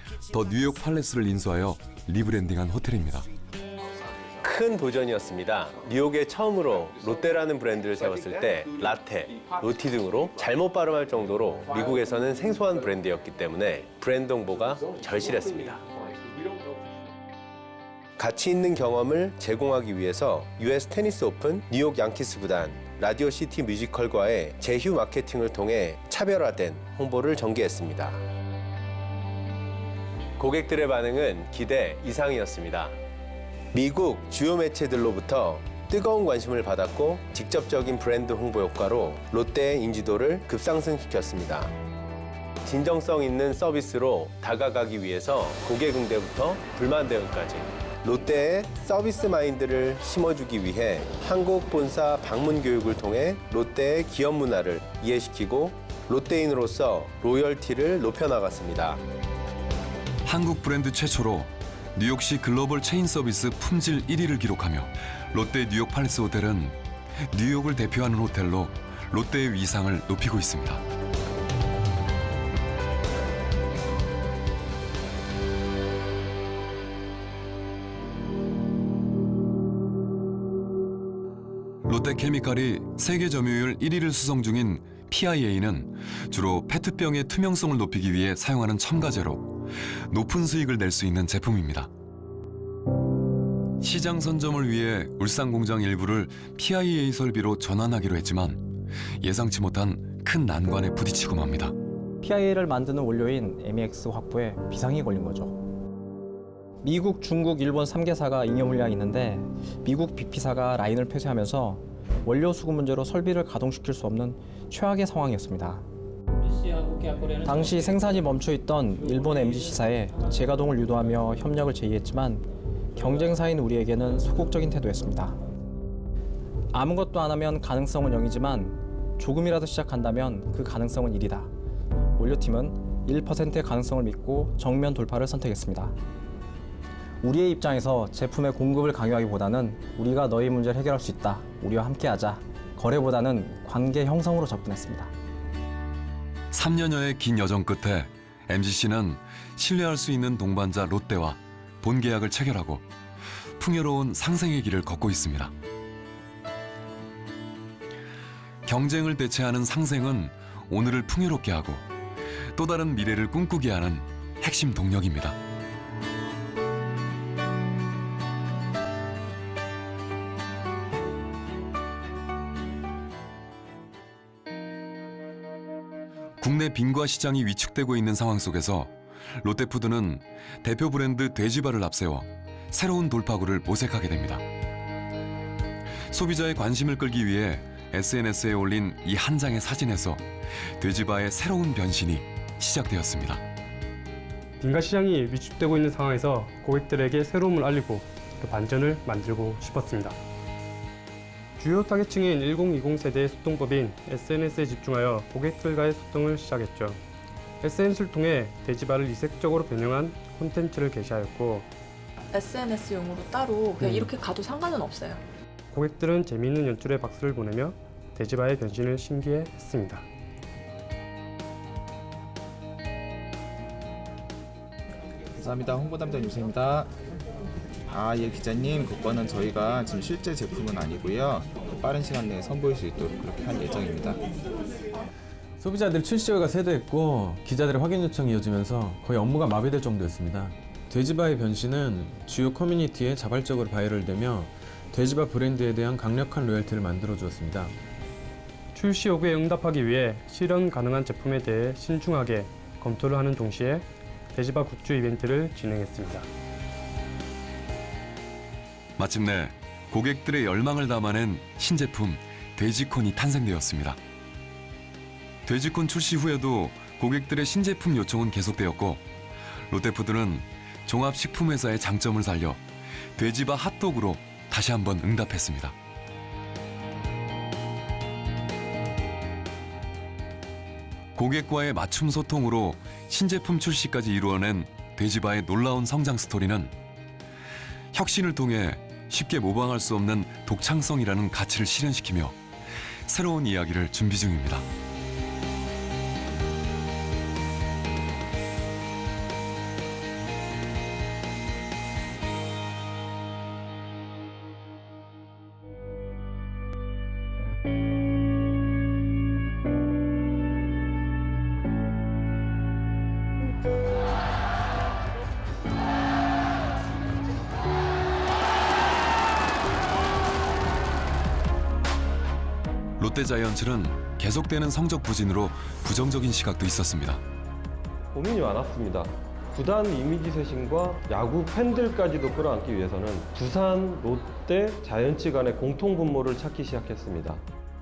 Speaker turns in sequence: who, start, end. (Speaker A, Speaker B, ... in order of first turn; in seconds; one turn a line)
Speaker A: 0.3-3.3
Speaker B: 4.4-15.8
Speaker B: 18.2-28.2
Speaker B: 30.4-32.9
Speaker B: 33.7-41.7
Speaker B: 42.6-59.0
Speaker A: 60.2-66.8
Speaker A: 67.3-70.8
Speaker A: 81.8-91.9
Speaker A: 93.8-101.7
Speaker C: 102.2-105.6
Speaker C: 106.8-115.8
Speaker C: 117.4-122.4
Speaker C: 123.0-125.3
Speaker C: 126.7-131.5
Speaker C: 132.2-135.9
Speaker C: 137.2-145.1
Speaker A: 146.5-152.8
Speaker A: 153.6-155.5
Speaker A: 158.6-161.8
Speaker A: 162.5-165.3
Speaker A: 176.4-184.4
Speaker A: 186.1-190.2
Speaker A: 190.8-193.4
Speaker D: 194.6-200.2
Speaker D: 201.6-207.0
Speaker D: 207.6-211.7
Speaker E: 212.3-215.2
Speaker D: 213.8-214.1
Speaker D: 215.7-220.0
Speaker F: 225.4-226.9
Speaker F: 227.9-234.3
Speaker G: 235.6-247.7
Speaker D: 248.7-256.3
Speaker A: 259.0-264.0
Speaker A: 265.4-269.0
Speaker A: 269.7-272.6
Speaker A: 273.1-275.7
Speaker A: 281.1-286.7
Speaker A: 287.9-292.4
Speaker A: 293.1-294.6
Speaker A: 323.0-327.2
Speaker H: 328.1-337.4